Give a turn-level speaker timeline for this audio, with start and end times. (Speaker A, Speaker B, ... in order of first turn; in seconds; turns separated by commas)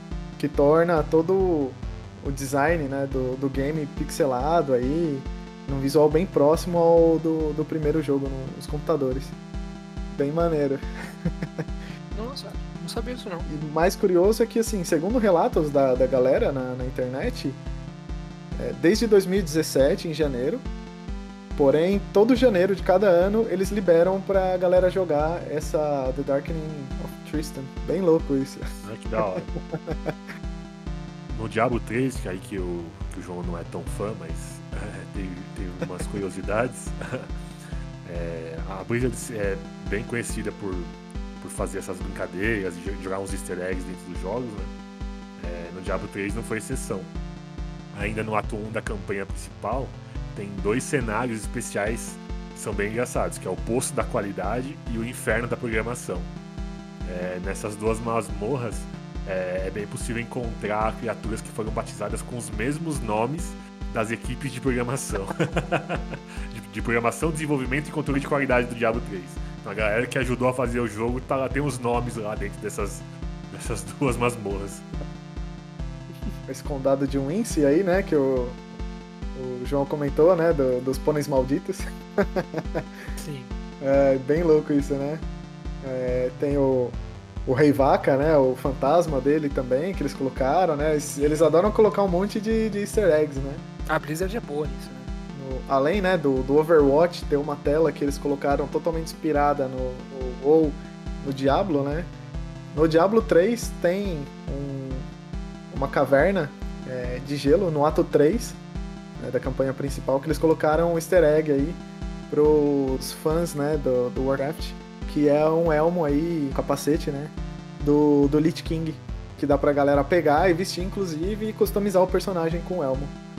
Speaker A: 0.4-9.3, Speaker A: 10.1-11.4, Speaker B: 12.1-13.5, Speaker A: 13.5-17.6, Speaker A: 18.6-20.6, Speaker A: 21.6-28.7, Speaker C: 28.8-29.5, Speaker A: 29.3-30.1, Speaker C: 31.3-37.3, Speaker C: 38.0-44.7, Speaker C: 45.4-47.1, Speaker C: 47.9-56.3, Speaker C: 57.0-74.9, Speaker A: 76.5-78.6, Speaker A: 79.3-82.8, Speaker B: 83.2-83.5, Speaker A: 83.8-85.2, Speaker A: 85.8-93.6, Speaker B: 93.9-95.1, Speaker A: 95.3-102.1, Speaker A: 102.7-105.1, Speaker A: 105.7-108.6, Speaker A: 109.2-123.1